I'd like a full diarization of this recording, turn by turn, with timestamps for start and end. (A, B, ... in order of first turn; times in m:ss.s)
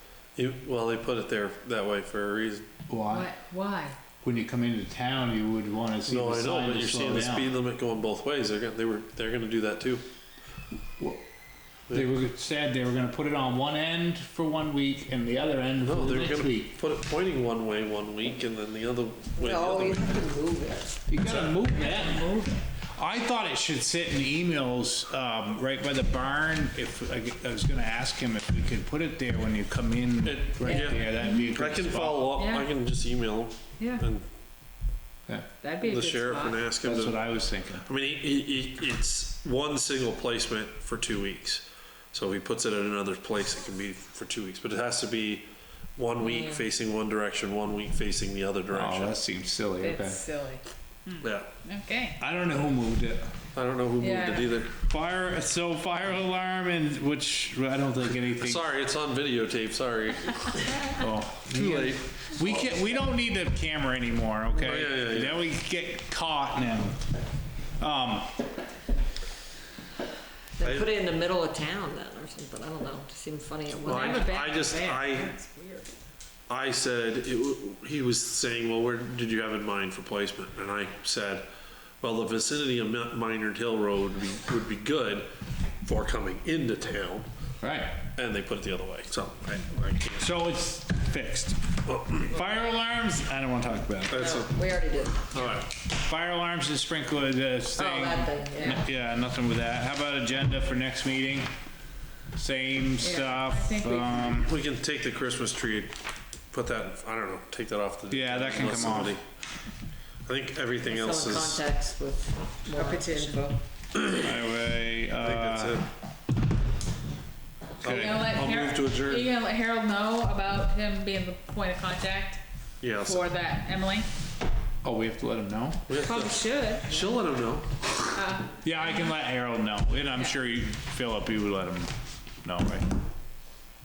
0:00.4-0:02.7 A
0:02.9-0:03.3 B
0:03.1-0:04.0 C
0:04.2-0:07.5 B
0:06.1-0:10.0 A
0:11.9-0:16.8 B
0:15.8-0:20.2 A
0:19.4-0:21.0 D
0:21.1-0:32.4 B
0:21.6-0:22.6 C
0:30.2-0:34.3 A
0:30.6-0:31.0 D
0:32.4-0:32.7 C
0:33.8-0:34.0 C
0:35.6-0:36.6 C
0:35.8-0:37.3 A
0:36.8-0:37.9 B
0:37.8-0:45.5 A
0:46.0-0:49.2 A
0:48.7-0:50.2 B
0:49.8-0:52.2 C
0:51.2-0:51.5 A
0:52.2-0:53.3 B
0:53.5-0:54.7 A
0:54.0-0:54.5 C
0:54.7-0:58.6 B
0:58.4-1:00.9 A
1:00.9-1:07.0 B
1:01.5-1:02.8 A
1:04.6-1:05.5 A
1:07.8-1:08.3 B
1:10.6-1:14.4 D
1:10.6-1:10.9 A
1:13.8-1:15.9 C
1:13.8-1:15.4 A
1:16.5-1:21.5 A
1:22.0-1:25.3 A
1:25.8-1:27.3 A
1:27.6-1:28.0 B
1:28.2-1:30.2 A
1:30.1-1:34.4 B
1:31.9-1:32.3 A
1:34.1-1:34.5 A
1:34.1-1:35.3 D
1:35.3-1:35.7 A
1:35.9-1:41.5 B
1:37.8-1:38.8 D
1:38.6-1:38.8 C
1:42.4-1:44.5 B
1:43.0-1:44.4 C
1:44.4-1:46.0 A
1:46.5-1:49.2 A
1:48.1-1:49.2 B
1:50.3-1:51.6 A
1:50.8-1:53.6 D
1:52.7-1:53.6 C
1:54.0-1:54.3 A
1:54.1-1:55.8 B
1:55.2-1:55.9 A
1:57.8-1:58.2 B
1:57.8-1:59.3 A
1:57.8-2:02.4 C
2:02.8-2:03.3 A
2:03.0-2:04.1 C
2:04.8-2:05.9 B
2:05.9-2:07.7 A
2:06.0-2:07.0 C
2:08.1-2:09.1 C
2:08.6-2:11.9 B
2:12.4-2:12.9 B